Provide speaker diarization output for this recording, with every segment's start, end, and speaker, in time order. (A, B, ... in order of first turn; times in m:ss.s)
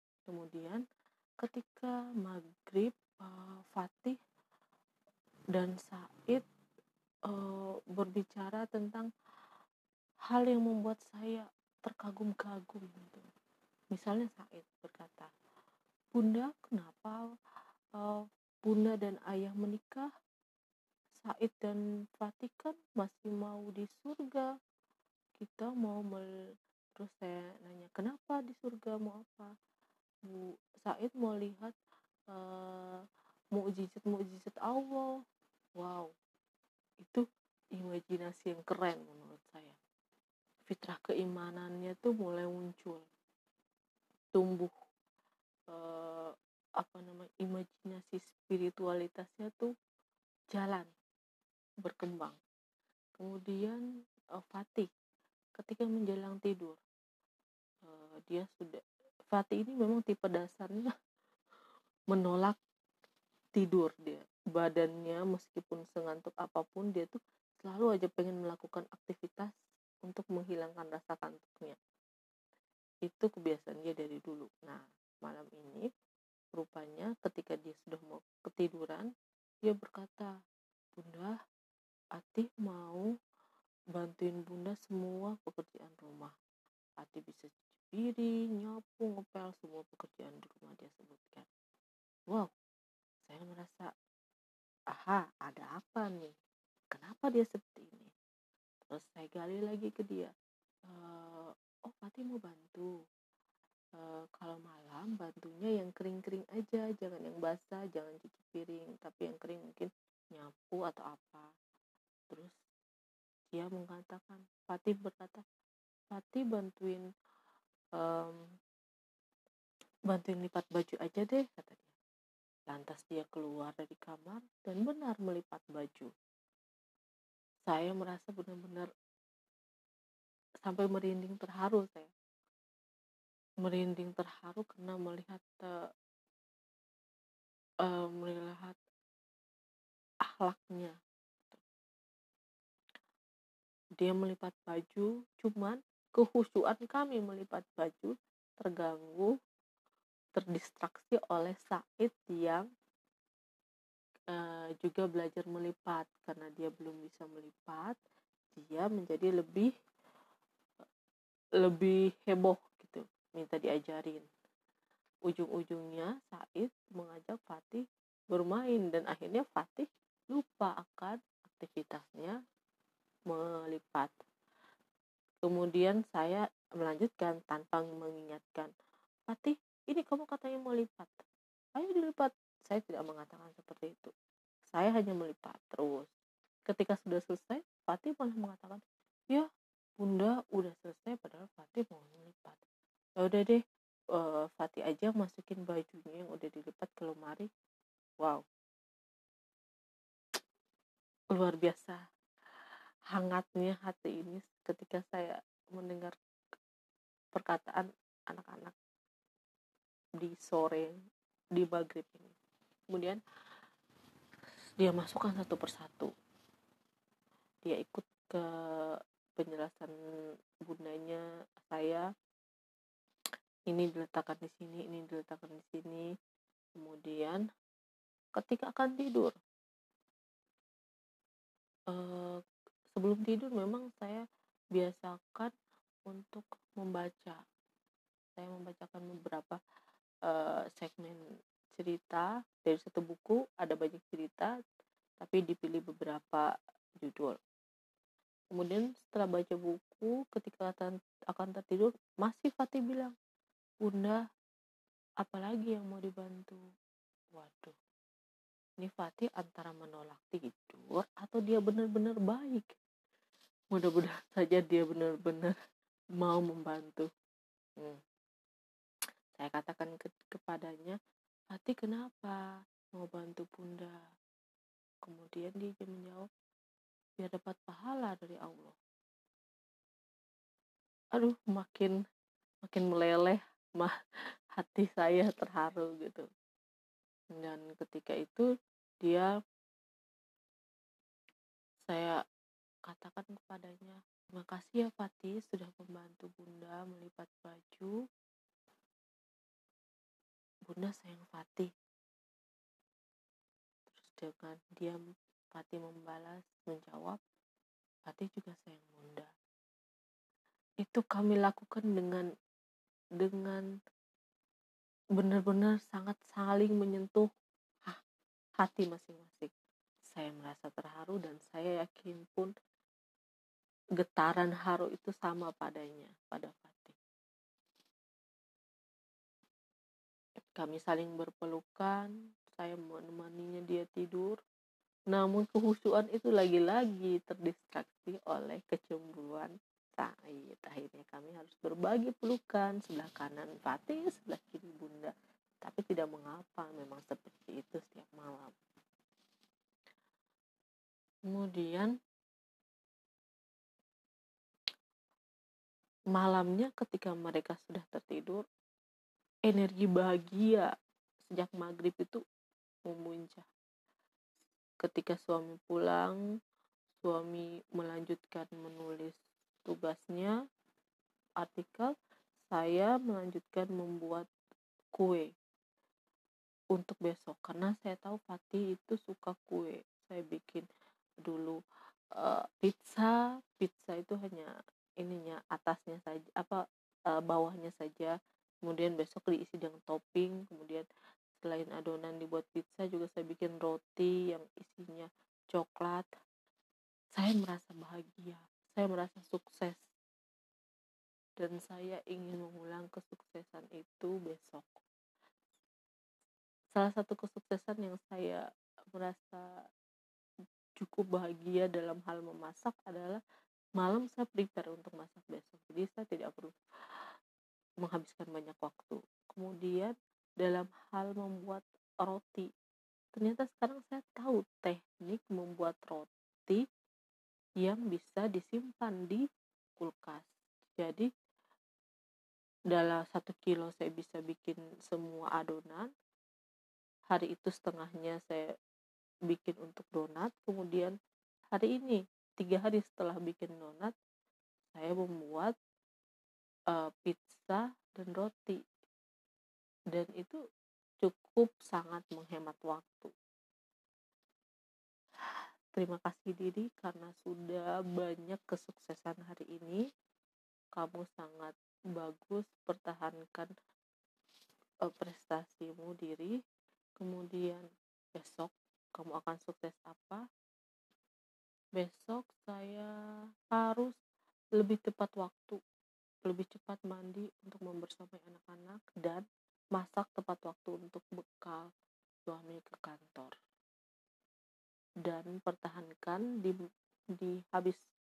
0:00.3-0:00.8 A
0:01.4-0:04.2 A
0:05.5-0:06.4 A
0:07.3-0:09.1 A
0:10.3-0:13.2 A
0:13.9-0:15.3 A
0:16.1-0:17.3 A
0:17.9-0:20.1 A
0:21.2-0:24.5 A
0:25.4-0:26.3 A
0:27.0-0:29.5 A
0:30.2-0:31.7 A
0:32.3-0:33.0 A
0:33.5-0:35.1 A
0:35.8-0:36.1 A
0:37.8-0:39.8 A
0:40.7-0:43.0 A
0:44.3-0:44.7 A
0:45.7-0:49.7 A
0:50.5-0:50.9 A
0:51.8-0:52.4 A
0:53.2-0:53.8 A
0:54.3-0:54.9 A
0:55.6-0:56.8 A
0:57.8-0:58.8 A
0:59.3-1:00.9 A
1:02.1-1:02.6 A
1:03.6-1:09.5 A
1:10.0-1:11.8 A
1:13.0-1:15.8 A
1:16.6-1:19.1 A
1:19.6-1:20.3 A
1:21.0-1:21.4 A
1:22.2-1:23.1 A
1:23.9-1:26.3 A
1:27.0-1:31.5 A
1:33.2-1:33.9 A
1:34.9-1:36.3 A
1:36.9-1:38.1 A
1:38.9-1:40.3 A
1:40.9-1:42.9 A
1:44.0-1:51.5 A
1:52.3-1:52.6 A
1:53.5-1:55.4 A
1:56.1-1:57.0 A
1:58.0-1:58.4 A
2:00.1-2:01.9 A
2:02.7-2:06.1 A
2:07.7-2:08.9 A
2:10.6-2:12.1 A
2:13.6-2:15.7 A
2:17.8-2:18.8 A
2:20.3-2:20.9 A
2:24.0-2:29.3 A
2:30.3-2:32.7 A
2:34.3-2:38.0 A
2:38.5-2:39.7 A
2:41.6-2:44.2 A
2:45.3-2:52.4 A
2:53.3-2:54.1 A
2:55.4-2:58.7 A
2:59.3-3:01.1 A
3:01.8-3:04.1 A
3:04.7-3:06.1 A
3:06.7-3:09.5 A
3:10.0-3:12.6 A
3:13.2-3:13.6 A
3:14.1-3:17.5 A
3:21.3-3:22.0 A
3:23.1-3:26.1 A
3:27.3-3:28.7 A
3:30.2-3:30.9 A
3:31.5-3:32.3 A
3:32.9-3:33.2 A
3:34.8-3:36.1 A
3:37.6-3:39.9 A
3:40.6-3:42.0 A
3:43.7-3:46.1 A
3:46.8-3:47.4 A
3:48.4-3:49.3 A
3:51.9-3:52.4 A
3:52.9-3:54.2 A
3:54.7-3:55.5 A
3:56.1-3:57.4 A
3:58.4-3:59.6 A
4:00.2-4:01.2 A
4:01.7-4:04.5 A
4:05.2-4:06.5 A
4:07.0-4:07.4 A
4:08.5-4:13.1 A
4:13.8-4:14.2 A
4:15.2-4:16.6 A
4:17.3-4:17.7 A
4:18.8-4:22.6 A
4:23.7-4:25.5 A
4:26.2-4:27.1 A
4:29.4-4:31.0 A
4:31.5-4:32.4 A
4:32.9-4:34.0 A
4:35.0-4:36.3 A
4:37.2-4:38.8 A
4:41.1-4:42.0 A
4:42.6-4:43.9 A
4:44.5-4:46.2 A
4:47.3-4:48.5 A
4:49.0-4:49.3 A
4:51.8-4:52.2 A
4:52.8-4:57.9 A
5:00.7-5:01.7 A
5:03.9-5:05.0 A
5:05.5-5:07.2 A
5:08.1-5:09.3 A
5:10.8-5:12.3 A
5:13.2-5:13.6 A
5:15.2-5:17.3 A
5:18.6-5:19.5 A
5:20.1-5:22.5 A
5:24.0-5:27.0 A
5:30.6-5:34.4 A
5:35.1-5:48.5 A
5:51.3-5:51.9 A
5:56.1-5:58.4 A
5:59.5-6:00.7 A
6:01.3-6:02.2 A
6:02.9-6:03.5 A
6:04.8-6:06.2 A
6:07.0-6:10.3 A
6:11.4-6:11.9 A
6:12.5-6:14.3 A
6:14.9-6:15.3 A
6:16.7-6:20.6 A
6:21.2-6:21.6 A
6:22.2-6:26.6 A
6:27.1-6:30.8 A
6:31.4-6:36.1 A
6:37.1-6:39.8 A
6:41.4-6:44.8 A
6:46.7-6:48.4 A
6:48.9-6:49.4 A
6:50.8-6:53.2 A
6:53.8-6:56.5 A
6:57.8-7:02.5 A
7:03.2-7:06.6 A
7:07.6-7:09.2 A
7:09.8-7:11.1 A
7:12.7-7:15.9 A
7:17.1-7:18.4 A
7:19.3-7:20.9 A
7:21.5-7:23.9 A
7:24.7-7:25.5 A
7:26.7-7:28.6 A
7:29.9-7:30.4 A
7:31.0-7:33.1 A
7:35.7-7:39.8 A
7:40.8-7:43.5 A
7:44.8-7:46.3 A
7:47.0-7:50.2 A
7:51.8-7:52.9 A
7:53.5-7:53.9 A
7:54.6-7:55.6 A
7:56.2-7:59.2 A
7:59.8-8:01.6 A
8:02.3-8:03.3 A
8:05.0-8:06.5 A
8:07.2-8:07.8 A